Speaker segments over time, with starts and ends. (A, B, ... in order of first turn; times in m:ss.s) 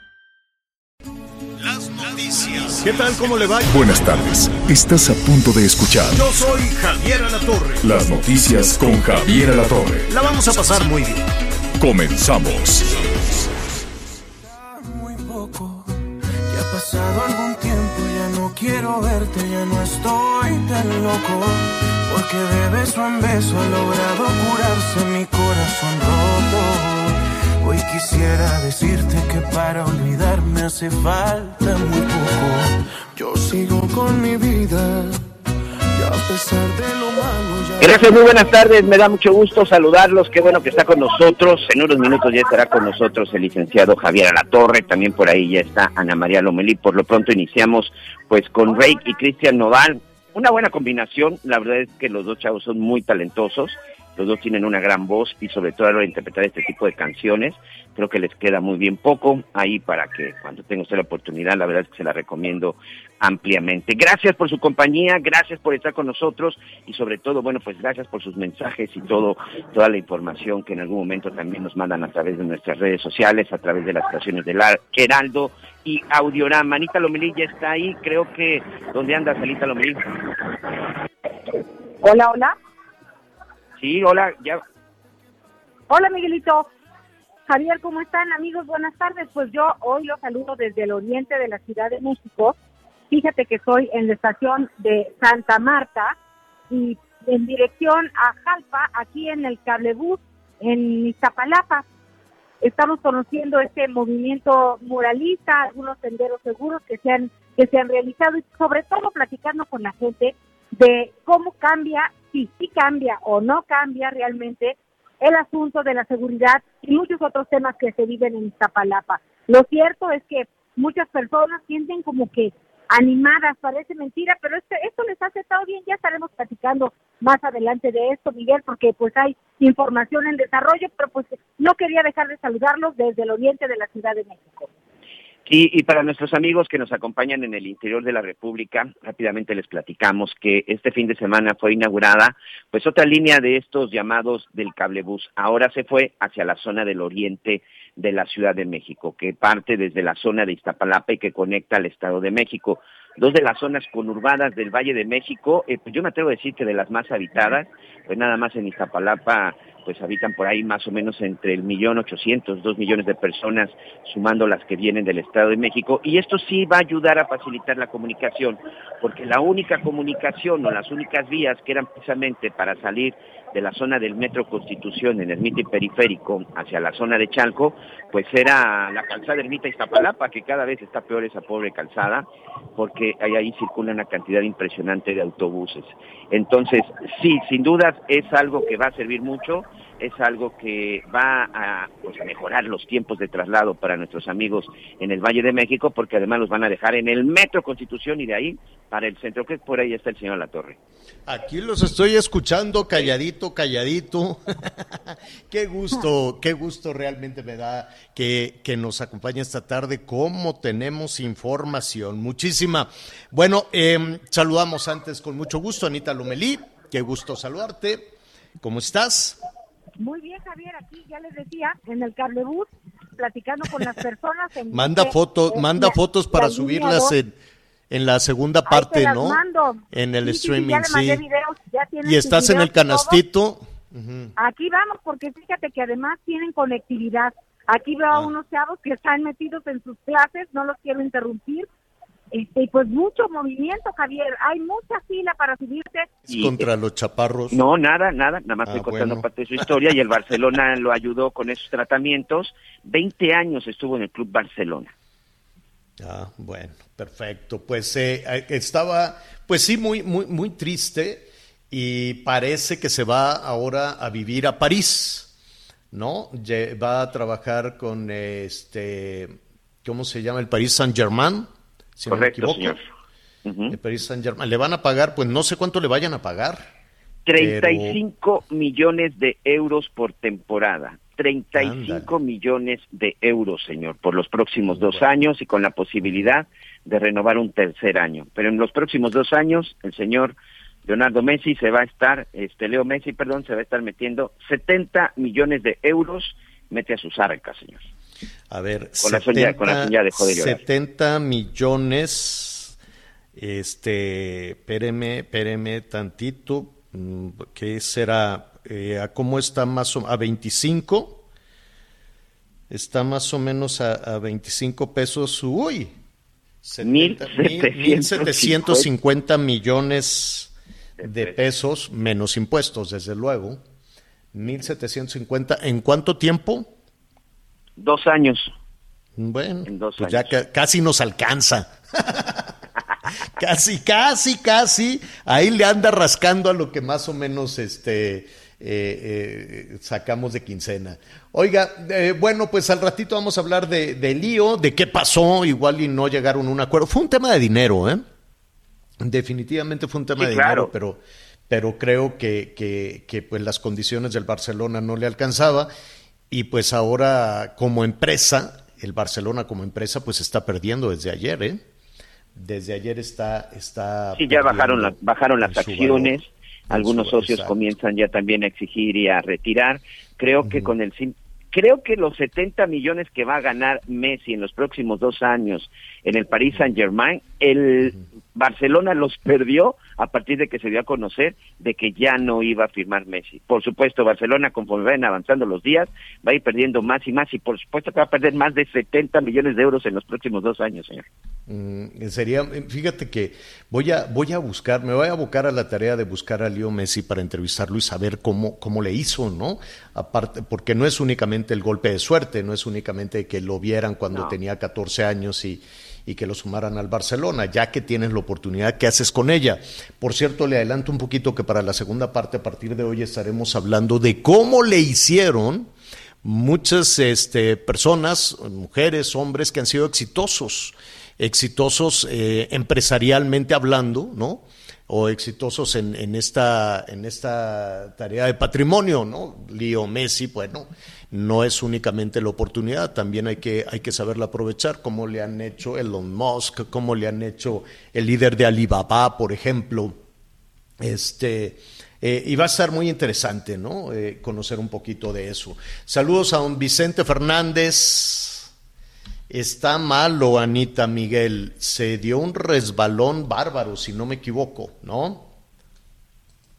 0:01.6-0:03.8 A
0:03.7-0:06.2 B
0:06.1-0:07.9 A
0:07.8-0:10.1 B
0:10.1-0:11.2 A
0:11.8-0:13.4 B
0:14.4-0:15.9 C
0:16.5-0:35.2 C
0:35.9-0:38.2 C
0:37.8-1:20.1 D
1:22.0-1:22.5 E
1:23.8-1:24.6 D
1:25.9-1:26.7 E
1:27.5-1:32.5 E
1:33.1-1:36.1 E
1:36.7-1:41.8 E
1:42.6-2:14.7 E
2:15.5-3:02.2 D
3:02.8-3:20.8 D
3:21.3-3:38.1 A
3:38.6-3:39.4 A
3:40.0-3:47.1 E
3:44.7-3:47.3 A
3:47.9-3:51.2 A
3:48.7-3:53.2 E
3:52.0-3:54.3 A
3:54.4-4:01.7 E
4:02.3-4:06.1 E
4:06.3-4:07.6 A
4:06.3-4:06.6 D
4:07.5-4:14.9 D
4:08.7-4:09.7 A
4:16.0-4:25.3 A
4:25.9-4:32.8 A
4:32.1-4:32.8 D
4:33.4-4:33.7 D
4:33.7-4:36.7 A
4:37.2-4:50.3 D
4:37.4-4:38.0 A
4:41.5-4:42.1 A
4:44.7-4:45.0 A
4:50.8-4:57.9 D
4:58.5-5:02.8 A
4:59.0-5:00.6 D
5:03.3-5:11.2 A
5:12.7-5:15.9 A
5:16.6-5:23.6 A
5:16.8-5:18.8 D
5:21.0-5:21.3 D
5:24.3-5:26.7 A
5:27.8-5:28.5 D
5:29.2-5:32.5 A
5:29.7-5:30.4 D
5:33.3-5:48.0 A
5:49.0-5:55.7 A
5:50.2-5:50.7 D
5:56.3-6:01.6 A
6:02.3-6:06.2 A
6:04.1-6:31.0 D
6:06.7-6:07.5 A
6:10.4-6:10.7 A
6:31.5-6:55.7 A
6:56.2-7:19.9 A
7:20.8-7:28.5 A
7:29.3-7:35.3 A